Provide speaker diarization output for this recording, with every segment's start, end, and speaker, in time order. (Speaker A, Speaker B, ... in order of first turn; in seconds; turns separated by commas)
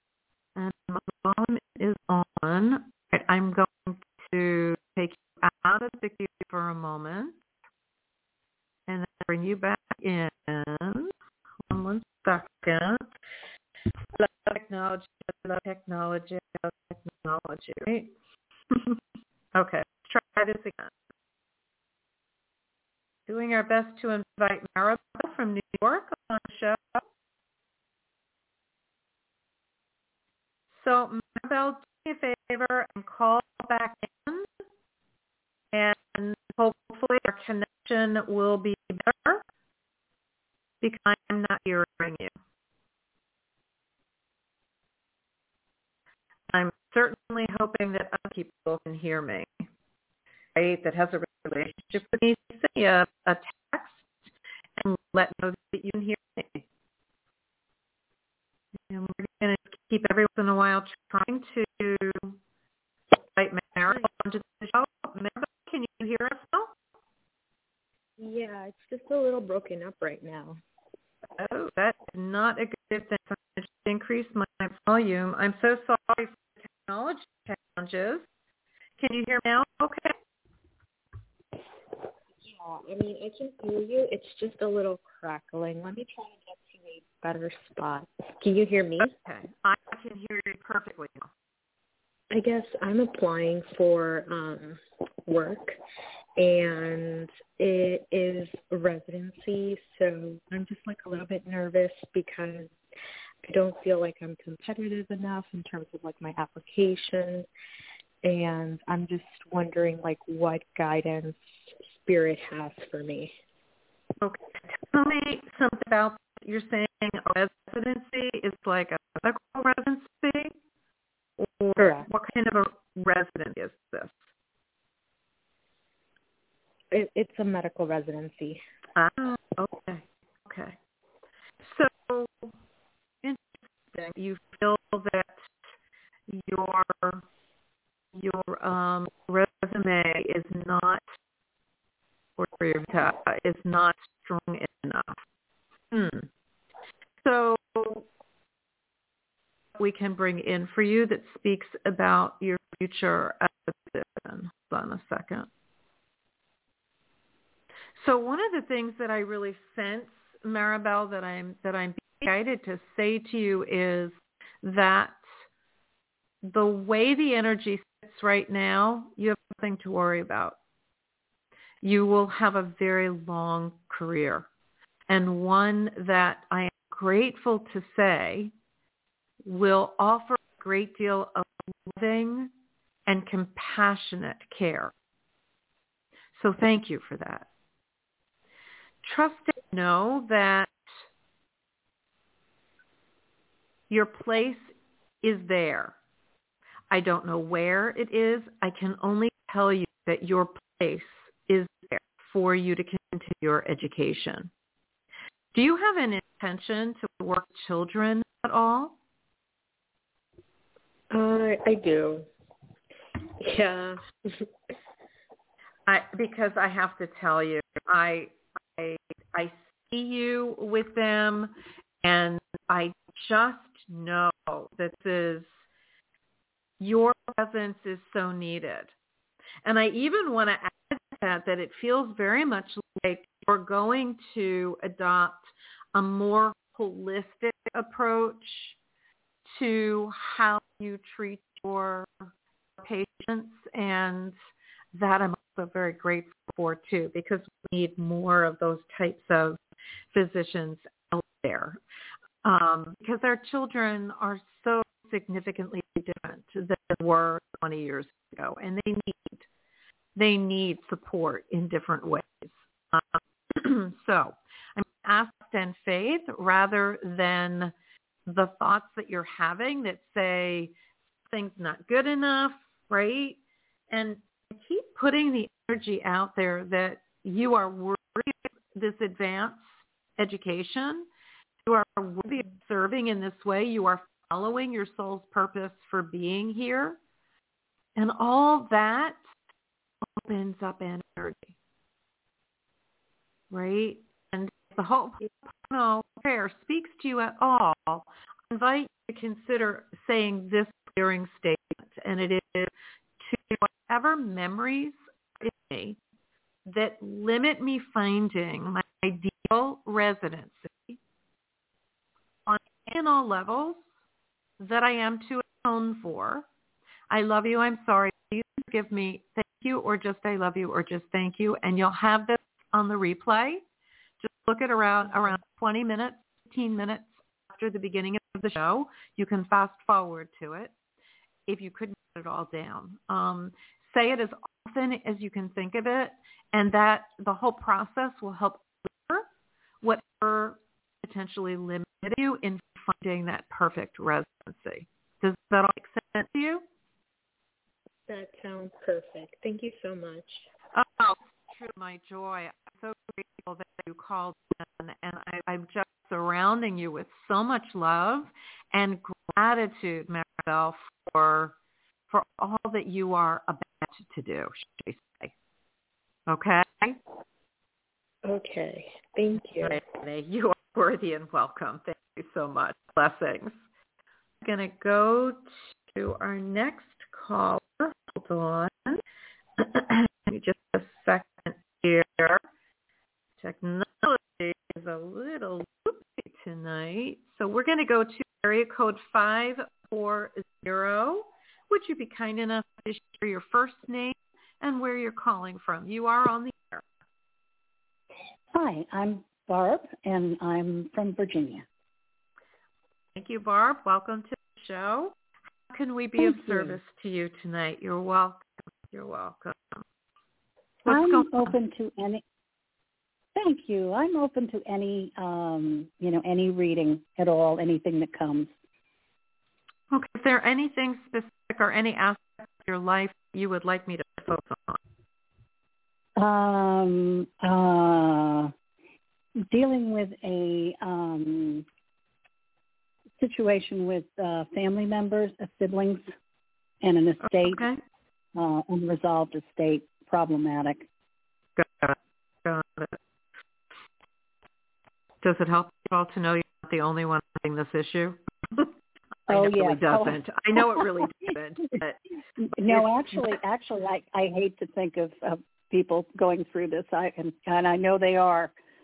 Speaker A: 0.6-7.3, Speaker A: 8.9-11.1, Speaker A: 11.7-13.1, Speaker A: 14.1-18.1, Speaker A: 18.7-19.0, Speaker A: 19.5-20.9, Speaker A: 23.3-27.0, Speaker A: 30.7-34.5, Speaker A: 35.7-39.4, Speaker A: 40.8-42.3, Speaker A: 46.5-49.6, Speaker A: 50.5-56.6, Speaker A: 58.9-62.4, Speaker A: 63.3-66.7, Speaker B: 68.2-70.6, Speaker A: 71.4-78.2, Speaker A: 79.0-80.1, Speaker B: 82.4-89.1, Speaker A: 89.2-91.3, Speaker B: 92.3-95.8, Speaker B: 96.4-102.7, Speaker B: 103.4-107.5, Speaker B: 108.2-113.4, Speaker A: 114.2-120.5, Speaker A: 121.4-124.2, Speaker B: 121.8-122.1, Speaker B: 126.9-128.6, Speaker A: 128.9-130.8, Speaker A: 131.6-132.5, Speaker A: 133.2-135.4, Speaker A: 136.3-137.2, Speaker A: 138.2-141.0, Speaker A: 142.4-145.2, Speaker A: 145.9-146.3, Speaker A: 147.2-148.1, Speaker A: 149.8-155.5, Speaker A: 157.9-165.2, Speaker A: 166.4-170.6, Speaker A: 171.8-174.5, Speaker A: 175.1-178.5, Speaker A: 179.4-182.5, Speaker A: 183.1-184.9, Speaker A: 186.3-187.5, Speaker A: 189.0-190.7, Speaker A: 193.9-195.9, Speaker A: 196.9-204.5, Speaker A: 205.5-208.9, Speaker B: 211.1-212.3, Speaker B: 213.4-214.4, Speaker A: 215.9-221.5, Speaker A: 222.0-225.5, Speaker A: 226.8-228.9, Speaker A: 229.6-238.8, Speaker A: 239.4-244.3, Speaker A: 244.9-249.6, Speaker A: 250.1-251.8, Speaker A: 252.4-259.4, Speaker A: 260.1-267.7, Speaker A: 268.2-270.7, Speaker A: 271.3-273.4, Speaker A: 273.9-281.1, Speaker A: 281.6-287.0, Speaker A: 287.9-289.2, Speaker A: 290.0-291.5, Speaker A: 293.5-306.0, Speaker A: 306.7-311.0, Speaker A: 312.4-313.9, Speaker A: 314.6-316.4, Speaker A: 317.1-323.6, Speaker A: 324.2-330.7, Speaker A: 331.5-339.2, Speaker A: 339.8-346.6, Speaker B: 348.1-350.5, Speaker A: 350.8-361.5, Speaker A: 362.1-365.3, Speaker A: 366.3-367.0, Speaker B: 368.2-369.8, Speaker A: 369.6-373.5, Speaker A: 374.4-379.0, Speaker A: 379.6-382.4, Speaker A: 383.4-396.8, Speaker C: 398.5-401.6, Speaker A: 403.1-405.1, Speaker A: 405.7-409.8, Speaker C: 406.2-406.8, Speaker A: 410.8-411.5, Speaker C: 410.9-412.2, Speaker C: 413.3-418.5, Speaker A: 419.9-424.8, Speaker C: 426.2-428.5, Speaker C: 429.5-431.6, Speaker C: 433.2-436.1, Speaker C: 436.8-437.6, Speaker A: 437.2-437.8, Speaker C: 438.4-440.9, Speaker A: 441.6-442.9, Speaker A: 445.2-448.7, Speaker A: 449.3-452.0, Speaker C: 449.3-451.1, Speaker C: 452.4-458.5, Speaker A: 452.6-453.4